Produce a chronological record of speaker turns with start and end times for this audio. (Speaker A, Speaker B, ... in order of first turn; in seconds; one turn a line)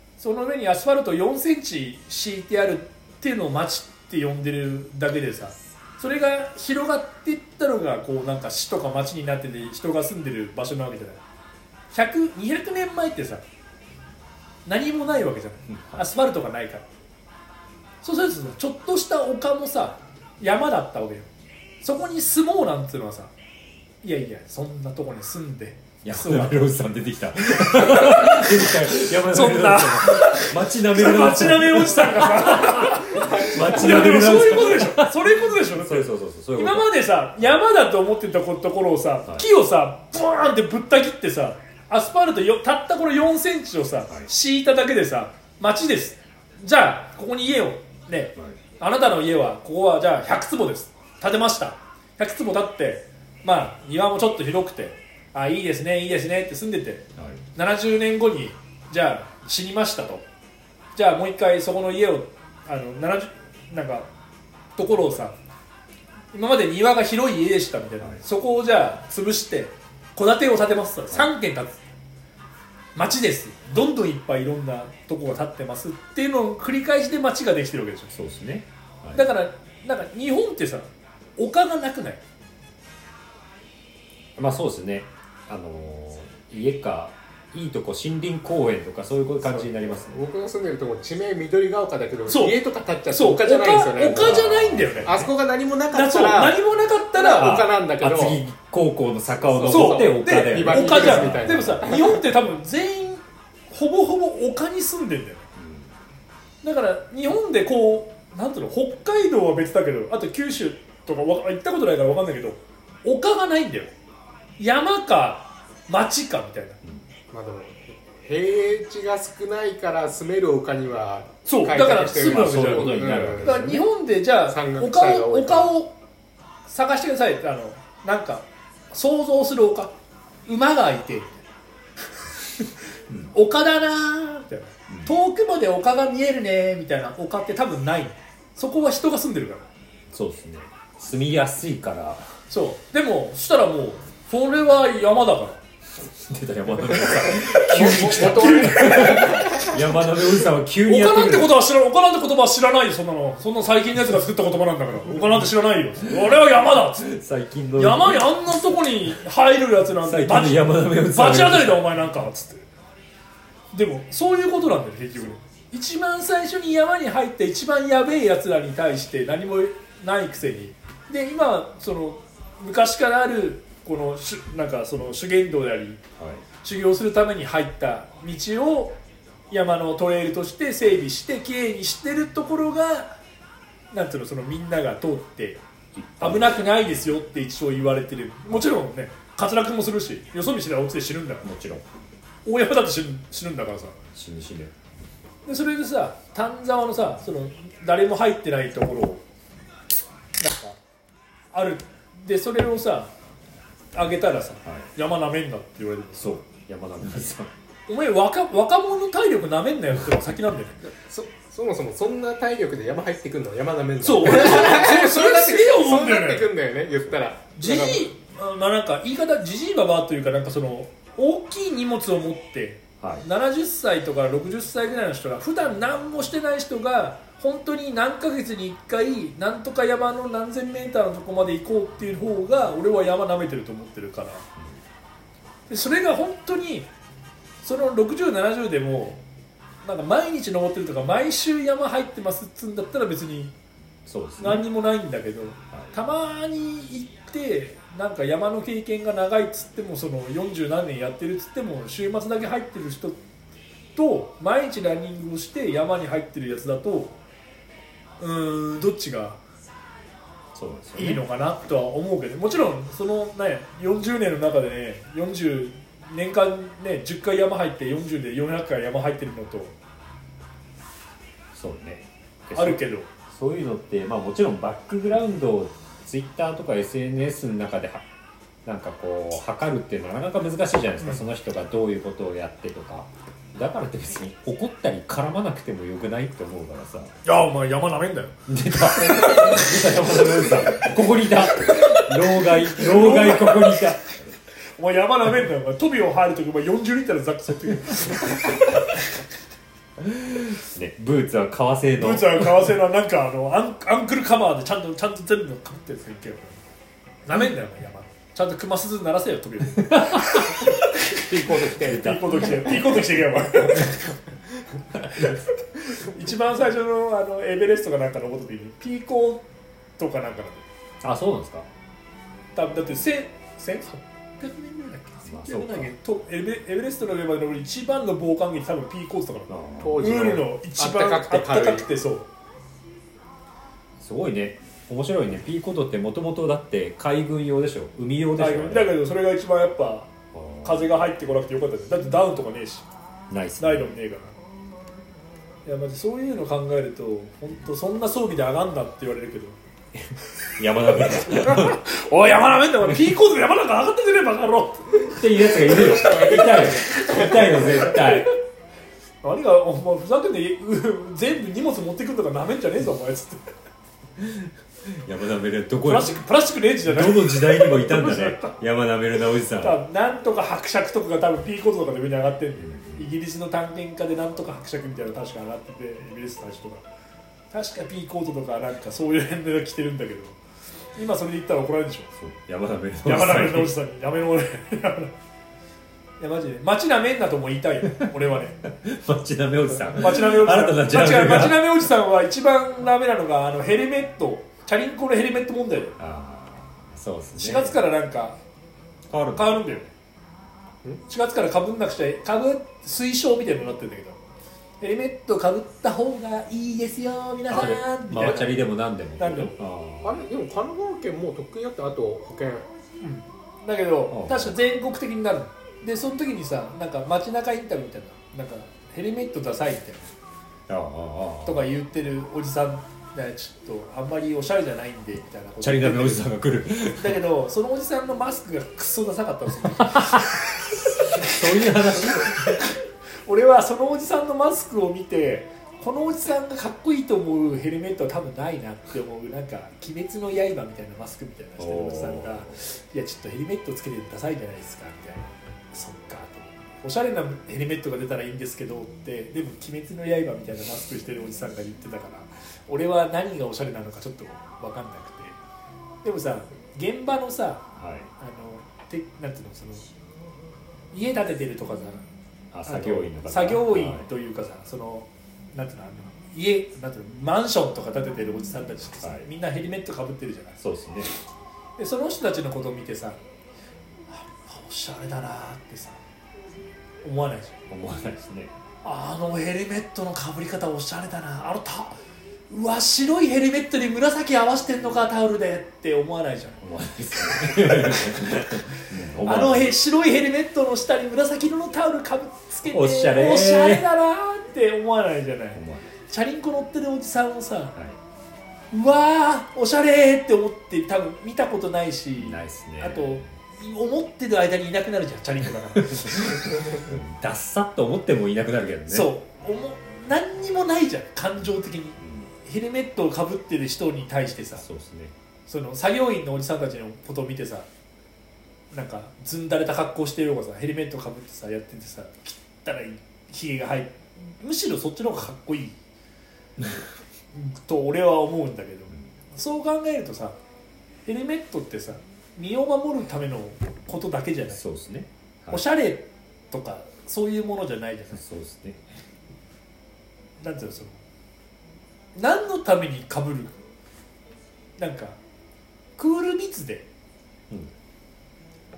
Speaker A: 0.2-11.2
Speaker A: 11.9-13.4
Speaker A: 14.7-16.9
Speaker B: 15.7-16.1
Speaker A: 18.0-21.3
Speaker A: 21.8-23.3
Speaker A: 24.0-26.7
Speaker B: 26.0-36.9
Speaker A: 27.6-60.3
Speaker C: 33.2-33.6
Speaker B: 57.2-57.4
Speaker A: 61.0-64.1
Speaker A: 64.8-65.4
Speaker A: 66.3-71.8
Speaker A: 73.0-78.1
Speaker B: 78.1-79.3
Speaker A: 79.1-82.2
Speaker B: 84.4-90.2
Speaker C: 89.5-94.4
Speaker A: 92.3-95.2
Speaker B: 94.0-95.3
Speaker C: 95.1-96.6
Speaker A: 95.9-97.6
Speaker C: 97.1-98.4
Speaker B: 97.4-101.8
Speaker C: 99.4-102.2
Speaker A: 99.7-105.5
Speaker B: 105.6-105.9
Speaker A: 106.6-113.9
Speaker A: 114.6-116.8
Speaker C: 117.3-123.6
Speaker A: 121.5-126.0
Speaker B: 122.2-123.8
Speaker C: 124.5-125.7
Speaker A: 126.7-131.4
Speaker A: 133.3-139.7
Speaker B: 140.1-142.4
Speaker A: 142.5-145.6
Speaker B: 146.0-151.6
Speaker C: 147.1-149.9
Speaker A: 147.8-149.7
Speaker A: 150.8-157.2
Speaker B: 156.1-156.4
Speaker B: 156.9-158.4
Speaker A: 157.8-162.7
Speaker B: 160.0-161.9
Speaker A: 163.7-176.0
Speaker B: 176.2-176.4
Speaker A: 176.6-179.0
Speaker A: 179.5-183.2
Speaker A: 183.9-185.6
Speaker B: 185.9-186.6
Speaker A: 186.2-191.5
Speaker B: 191.4-191.8
Speaker A: 192.5-194.0
Speaker B: 194.1-194.7
Speaker A: 195.5-199.2
Speaker A: 200.4-200.8
Speaker A: 201.5-203.1
Speaker A: 203.9-206.3
Speaker B: 204.6-204.9
Speaker B: 206.2-207.5
Speaker A: 207.9-210.8
Speaker C: 210.9-218.1
Speaker A: 214.0-216.5
Speaker A: 217.6-234.5
Speaker B: 223.0-223.3
Speaker A: 235.7-236.9
Speaker A: 237.6-239.2
Speaker A: 239.8-243.5
Speaker B: 244.1-244.7
Speaker A: 244.4-253.2
Speaker A: 254.0-257.2
Speaker A: 258.2-259.4
Speaker B: 260.5-261.2
Speaker A: 261.0-269.8
Speaker B: 271.5-278.1
Speaker A: 272.5-273.1
Speaker B: 278.6-287.2
Speaker A: 287.2-288.4
Speaker B: 288.5-294.4
Speaker A: 288.9-289.6
Speaker A: 292.7-293.8
Speaker A: 294.8-299.2
Speaker B: 300.0-302.7
Speaker A: 302.0-306.6
Speaker A: 307.3-314.1
Speaker B: 309.8-310.6
Speaker C: 311.2-312.8
Speaker B: 311.8-312.6
Speaker B: 315.1-315.3
Speaker A: 315.1-319.5
Speaker A: 320.0-320.7
Speaker B: 321.0-321.7
Speaker A: 322.6-332.3
Speaker B: 325.2-325.9
Speaker B: 329.5-330.1
Speaker C: 329.8-331.9
Speaker B: 334.0-339.0
Speaker A: 338.4-342.9
Speaker B: 340.3-341.0
Speaker B: 343.3-343.9
Speaker A: 343.6-344.4
Speaker A: 345.7-349.6
Speaker B: 350.0-351.8
Speaker A: 351.2-358.1
Speaker B: 355.1-358.3
Speaker C: 355.6-357.9
Speaker A: 359.2-363.4
Speaker B: 364.2-366.2
Speaker A: 365.9-368.6
Speaker B: 366.8-369.8
Speaker A: 369.6-376.9
Speaker B: 372.6-373.1
Speaker A: 377.5-380.4
Speaker A: 380.9-382.1
Speaker B: 382.1-383.7
Speaker A: 383.1-385.1
Speaker A: 386.2-388.6
Speaker B: 388.7-391.7
Speaker A: 389.8-396.0
Speaker B: 396.0-397.8
Speaker A: 397.4-398.4
Speaker B: 399.1-399.6
Speaker A: 399.4-399.9
Speaker A: 401.1-404.2
Speaker A: 404.8-408.6
Speaker B: 407.5-410.2
Speaker A: 409.2-409.6
Speaker C: 410.0-412.7
Speaker A: 413.0-420.1
Speaker B: 414.1-414.6
Speaker B: 420.7-421.6
Speaker A: 421.4-426.2
Speaker B: 425.6-427.2
Speaker A: 426.9-455.4
Speaker B: 429.9-432.6
Speaker B: 441.6-442.5
Speaker A: 456.0-459.9
Speaker B: 457.8-458.1
Speaker A: 460.9-462.1
Speaker B: 462.5-464.1
Speaker A: 462.7-470.6
Speaker B: 469.0-469.3
Speaker B: 470.6-471.1
Speaker A: 471.8-473.2
Speaker A: 474.1-476.0
Speaker A: 477.0-477.6
Speaker B: 477.7-478.5
Speaker A: 478.8-482.0
Speaker A: 482.5-486.6
Speaker B: 486.6-489.8
Speaker A: 487.3-488.6
Speaker A: 489.2-497.8
Speaker B: 492.7-493.9
Speaker B: 495.6-495.9
Speaker A: 498.7-506.8
Speaker B: 502.2-503.3
Speaker B: 505.9-509.1
Speaker A: 508.9-514.7
Speaker B: 512.0-512.3
Speaker B: 514.6-515.1
Speaker A: 515.5-517.7
Speaker A: 518.7-525.8
Speaker A: 527.3-530.4
Speaker A: 531.1-534.6
Speaker B: 534.5-535.6
Speaker A: 535.5-538.2
Speaker B: 538.1-538.8
Speaker A: 540.4-541.0
Speaker A: 542.2-543.6
Speaker A: 544.8-545.2
Speaker A: 546.0-546.9